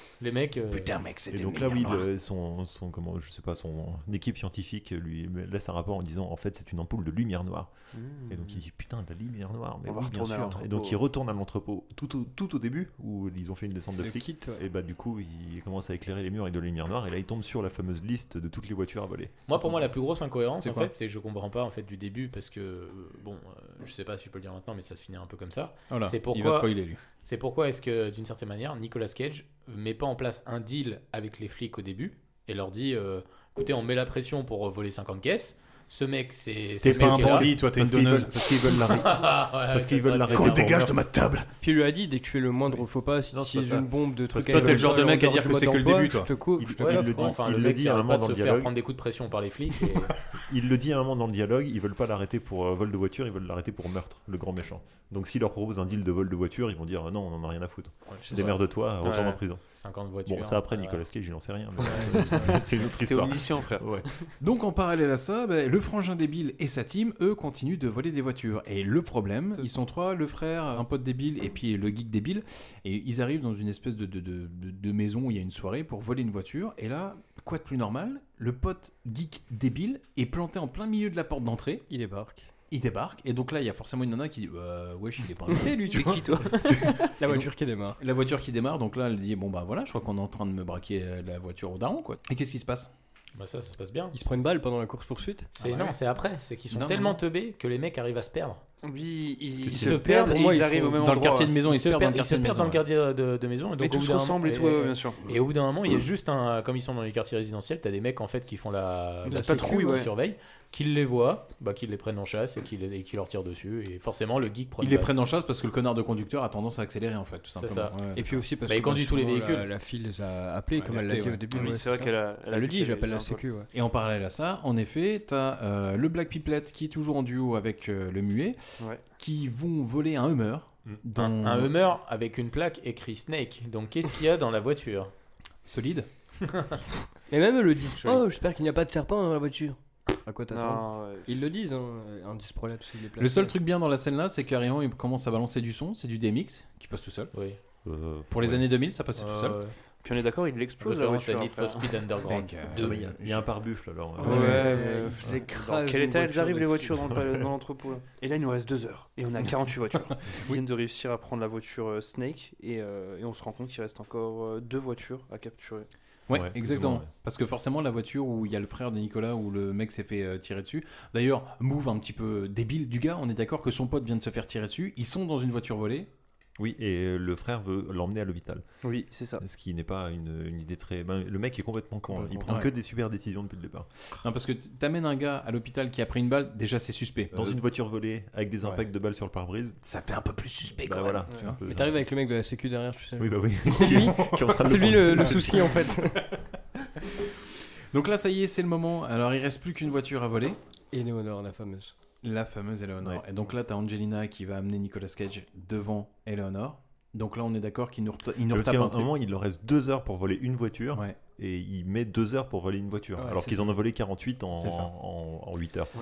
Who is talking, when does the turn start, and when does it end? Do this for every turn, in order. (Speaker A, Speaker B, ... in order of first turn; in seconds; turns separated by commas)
Speaker A: 0.2-1.0, Speaker B: 0.7-2.1, Speaker C: 1.3-19.5, Speaker D: 7.9-8.6, Speaker D: 9.9-11.0, Speaker E: 14.0-14.6, Speaker A: 19.5-37.5, Speaker B: 20.6-20.9, Speaker B: 25.9-27.0, Speaker B: 36.8-39.2, Speaker C: 36.8-41.0, Speaker A: 39.0-40.9, Speaker B: 40.3-41.5, Speaker E: 41.6-47.3, Speaker C: 43.3-45.2, Speaker B: 44.5-46.3, Speaker C: 46.6-48.7, Speaker A: 46.8-50.2, Speaker C: 50.3-59.7, Speaker A: 58.1-58.6, Speaker D: 59.0-59.4, Speaker A: 59.8-61.0, Speaker C: 60.2-64.1, Speaker E: 62.0-62.5, Speaker D: 62.9-64.3, Speaker B: 64.4-81.8, Speaker E: 81.9-82.5, Speaker B: 82.7-92.9, Speaker D: 85.9-87.0, Speaker E: 86.0-88.0, Speaker A: 93.3-94.2, Speaker E: 94.1-95.5, Speaker A: 95.6-98.6, Speaker B: 95.6-96.0, Speaker B: 96.7-97.2, Speaker D: 98.8-101.6, Speaker B: 99.7-100.0, Speaker A: 99.7-100.6, Speaker E: 99.9-101.0, Speaker B: 101.0-102.8, Speaker A: 101.6-115.1, Speaker D: 103.8-105.2, Speaker D: 109.3-110.1, Speaker B: 109.3-109.8, Speaker E: 109.3-109.7, Speaker B: 114.8-118.4, Speaker A: 117.6-118.0, Speaker E: 118.2-123.7, Speaker A: 118.7-119.7, Speaker B: 120.7-121.8, Speaker D: 121.5-123.4, Speaker B: 123.7-128.6, Speaker B: 129.2-131.7, Speaker A: 131.2-135.1, Speaker B: 135.7-136.1, Speaker E: 137.3-143.6, Speaker D: 140.5-141.3, Speaker B: 143.2-147.3, Speaker A: 147.3-147.6, Speaker C: 147.8-148.7, Speaker B: 148.3-149.6, Speaker A: 149.2-149.8, Speaker D: 150.0-152.1, Speaker A: 150.8-153.0, Speaker B: 152.2-153.5, Speaker C: 152.7-154.7, Speaker D: 154.2-165.9, Speaker E: 154.2-156.9, Speaker B: 154.2-154.7, Speaker B: 160.3-160.6, Speaker B: 166.3-176.1, Speaker C: 166.3-167.1, Speaker C: 176.6-178.7, Speaker D: 178.8-179.4, Speaker C: 179.4-183.9, Speaker E: 182.2-182.5, Speaker B: 182.4-182.7, Speaker B: 184.2-187.6, Speaker C: 187.3-189.8, Speaker B: 189.8-191.6, Speaker C: 190.7-192.1, Speaker E: 191.6-196.3, Speaker C: 193.2-195.9, Speaker B: 197.9-200.6, Speaker E: 200.9-201.9, Speaker B: 202.2-209.1, Speaker C: 208.5-215.9, Speaker B: 210.9-211.2, Speaker E: 213.2-213.8, Speaker B: 214.6-214.9